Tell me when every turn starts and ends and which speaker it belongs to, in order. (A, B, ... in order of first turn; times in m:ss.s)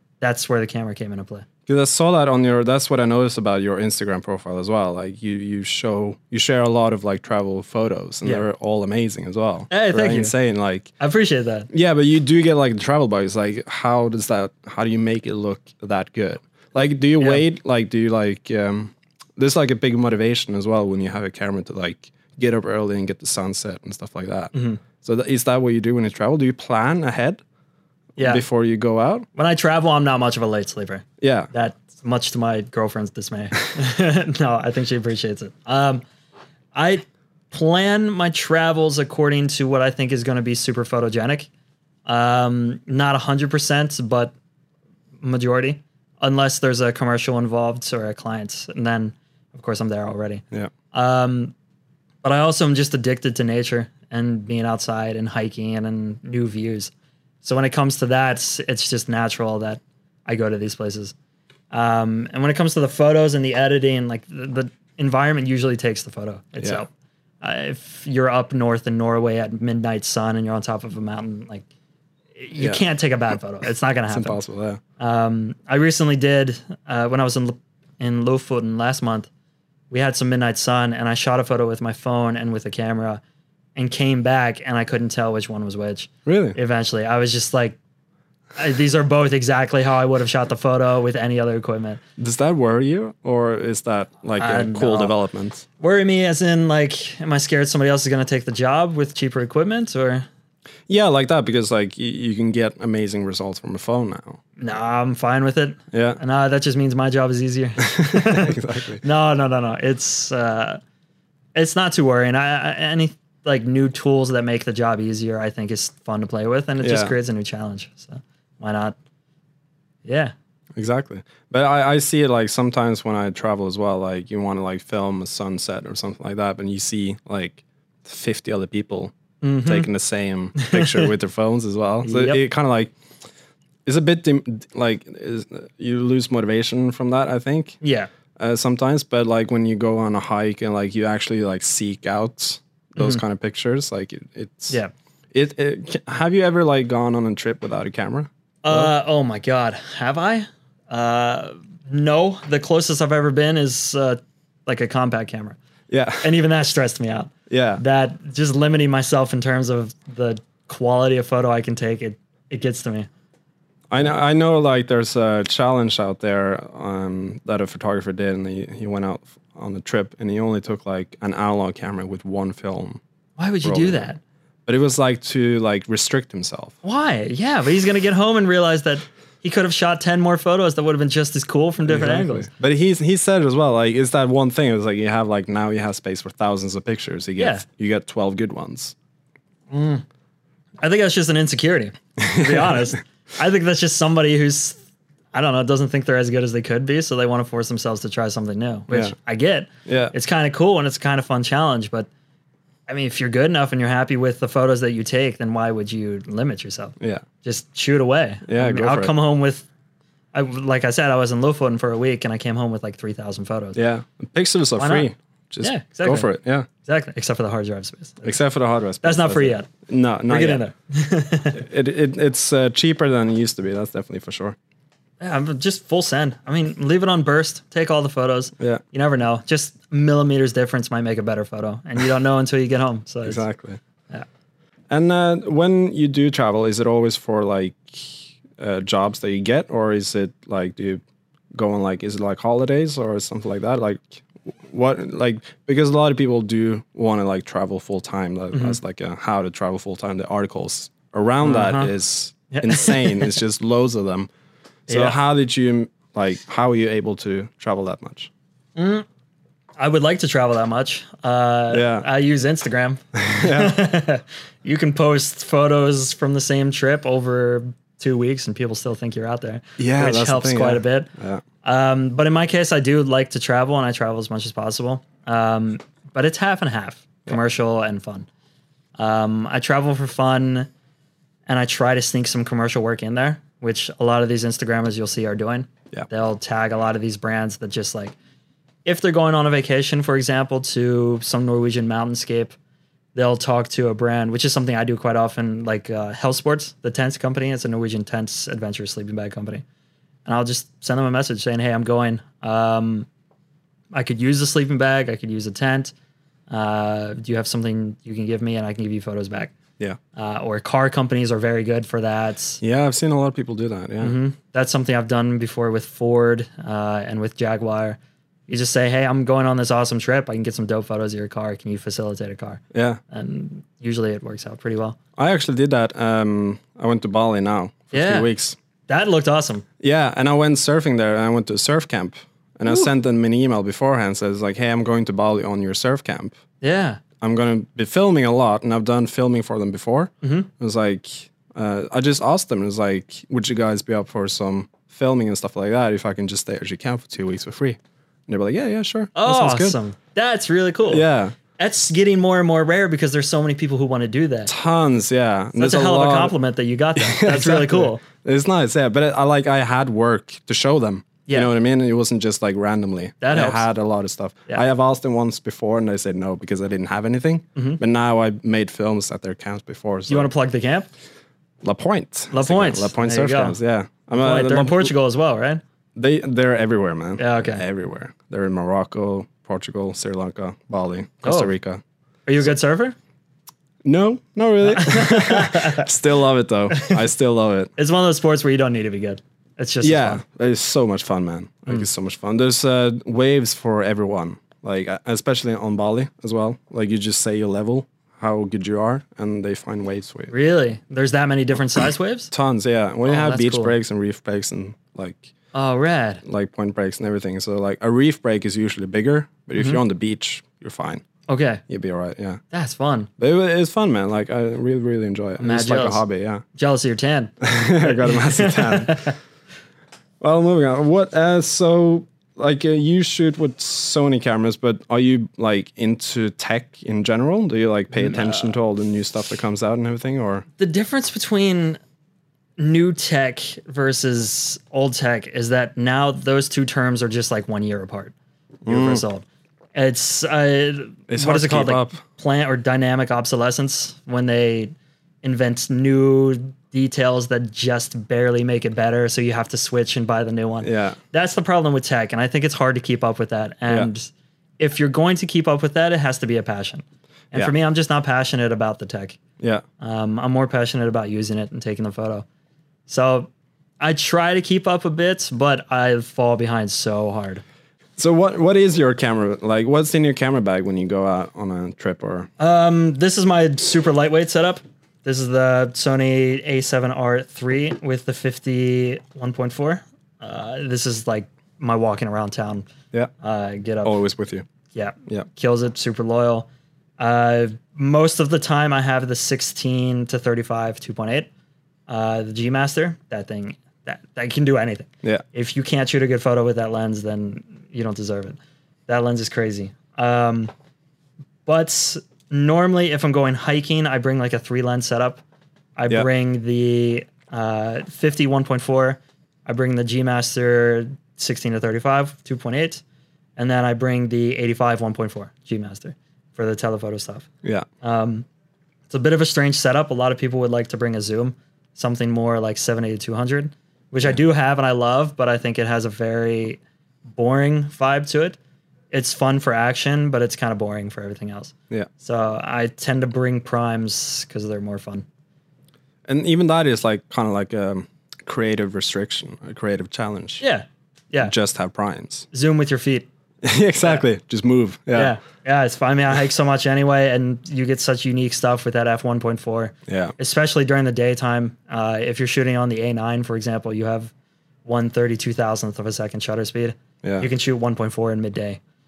0:00.2-0:01.4 A
0:01.7-0:10.9 B
0:09.7-0:10.3 A
0:11.0-0:11.7 A
0:11.7-0:27.4 B
0:24.5-0:24.8 A
0:28.2-0:28.4 A
0:28.2-0:29.3 B
0:29.3-0:36.0 A
0:31.2-0:31.5 B
0:36.8-0:41.5 A
0:42.1-0:44.3 A
0:45.2-0:51.5 A
0:52.2-0:56.9 A
0:57.4-1:01.1 A
1:01.7-1:06.9 A
1:07.4-1:11.6 A
1:12.4-1:14.4 A
1:12.6-1:12.8 B
1:14.1-1:14.8 B
1:15.0-1:19.3 A
1:19.9-1:23.2 A
1:23.8-1:27.8 A
1:26.2-1:26.6 B
1:28.6-1:32.0 A
1:32.2-1:35.6 B
1:34.4-1:35.1 A
1:35.8-1:40.2 A
1:40.9-1:44.4 B
1:44.6-1:50.8 A
1:45.9-1:46.2 B
1:47.8-1:49.0 B
1:51.6-1:59.0 A
1:56.8-1:57.1 B
2:00.0-2:00.3 A
2:00.8-2:09.1 B
2:09.4-2:09.9 A
2:09.6-2:12.9 B
2:10.6-2:11.1 A
2:12.0-2:12.4 A
2:13.8-2:17.8 B
2:17.8-2:18.1 A
2:18.4-2:24.8 B
2:23.0-2:23.2 A
2:25.3-2:28.9 B
2:28.6-2:35.6 A
2:35.9-2:36.3 B
2:36.2-2:43.1 A
2:37.5-2:37.8 B
2:43.9-2:53.0 B
2:53.4-2:54.2 A
2:53.6-2:54.1 B
2:54.6-2:56.8 B
2:56.8-3:02.5 A
3:01.8-3:08.9 B
3:07.4-3:07.6 A
3:09.7-3:10.0 A
3:10.8-3:14.8 A
3:12.2-3:12.9 B
3:15.3-3:22.1 A
3:18.9-3:19.1 B
3:19.8-3:20.1 B
3:22.9-3:29.7 A
3:28.5-3:29.1 B
3:30.3-3:33.8 A
3:33.7-3:36.7 B
3:34.8-3:35.1 A
3:35.6-3:36.3 A
3:36.8-3:38.4 A
3:38.2-3:40.6 B
3:39.0-3:39.7 A
3:40.3-3:41.6 A
3:41.5-3:44.6 B
3:45.2-3:53.4 A
3:53.2-3:53.8 B
3:54.9-4:01.0 B
4:01.5-4:14.3 B
4:11.4-4:11.9 A
4:12.5-4:13.3 A
4:14.9-4:15.2 A
4:14.9-4:18.3 B
4:18.8-4:19.1 A
4:19.8-4:31.1 A
4:21.7-4:22.1 B
4:23.2-4:23.8 B
4:29.8-4:31.4 B
4:31.6-4:38.3 A
4:39.0-4:40.7 A
4:41.5-4:48.2 A
4:48.8-4:52.6 A
4:53.2-4:59.6 A
5:00.2-5:03.1 A
5:03.9-5:05.9 A
5:06.5-5:09.6 A
5:10.2-5:12.6 A
5:12.6-5:14.2 B
5:14.0-5:25.0 A
5:22.7-5:23.0 B
5:25.2-5:28.6 B
5:27.9-5:28.3 A
5:28.9-5:29.6 A
5:29.8-5:36.4 B
5:36.6-5:37.0 A
5:37.2-5:49.8 B
5:40.2-5:40.5 A
5:49.2-5:51.0 A
5:50.9-5:51.3 B
5:51.6-5:54.5 A
5:54.5-5:56.3 B
5:55.6-5:58.0 A
5:57.0-6:10.3 B
6:03.2-6:03.7 A
6:10.1-6:10.9 A
6:11.6-6:14.9 B
6:12.3-6:13.6 A
6:14.1-6:15.6 A
6:16.0-6:21.8 B
6:17.2-6:17.6 A
6:21.2-6:21.5 A
6:22.2-6:22.9 A
6:23.8-6:27.7 B
6:24.6-6:25.9 A
6:26.7-6:27.0 A
6:27.8-6:30.2 A
6:29.8-6:40.3 B
6:40.3-6:42.3 A
6:42.3-6:45.3 B
6:43.0-6:43.8 A
6:45.5-6:46.2 A
6:46.2-6:51.0 B
6:49.6-6:49.8 A
6:51.3-6:51.6 A
6:51.7-6:52.4 B
6:52.5-6:53.1 A
6:53.2-6:56.4 B
6:55.4-6:56.0 A
6:56.6-6:59.2 A
6:57.4-6:59.1 B
7:00.2-7:10.4 B
7:07.9-7:08.5 A
7:10.6-7:11.8 A
7:12.6-7:18.1 A
7:18.6-7:19.0 B
7:18.7-7:39.2 A
7:21.1-7:22.0 B
7:30.6-7:31.0 B
7:39.8-7:42.2 A
7:42.9-7:47.4 A
7:48.0-7:52.3 B
7:52.4-8:02.7 A
8:03.2-8:03.9 A
8:03.8-8:04.4 B
8:04.7-8:06.5 A
8:07.0-8:11.3 A
8:11.9-8:20.5 A
8:21.4-8:25.2 A
8:25.8-8:32.8 A
8:33.4-8:37.3 A
8:37.8-8:38.2 A
8:38.9-8:48.4 A
8:48.9-8:55.0 A
8:56.1-9:00.4 B
9:00.4-9:01.3 A
9:01.2-9:02.3 B
9:02.3-9:03.1 A
9:03.4-9:05.1 B
9:04.9-9:14.1 A
9:09.9-9:10.1 B
9:14.6-9:18.6 A
9:17.0-9:17.3 B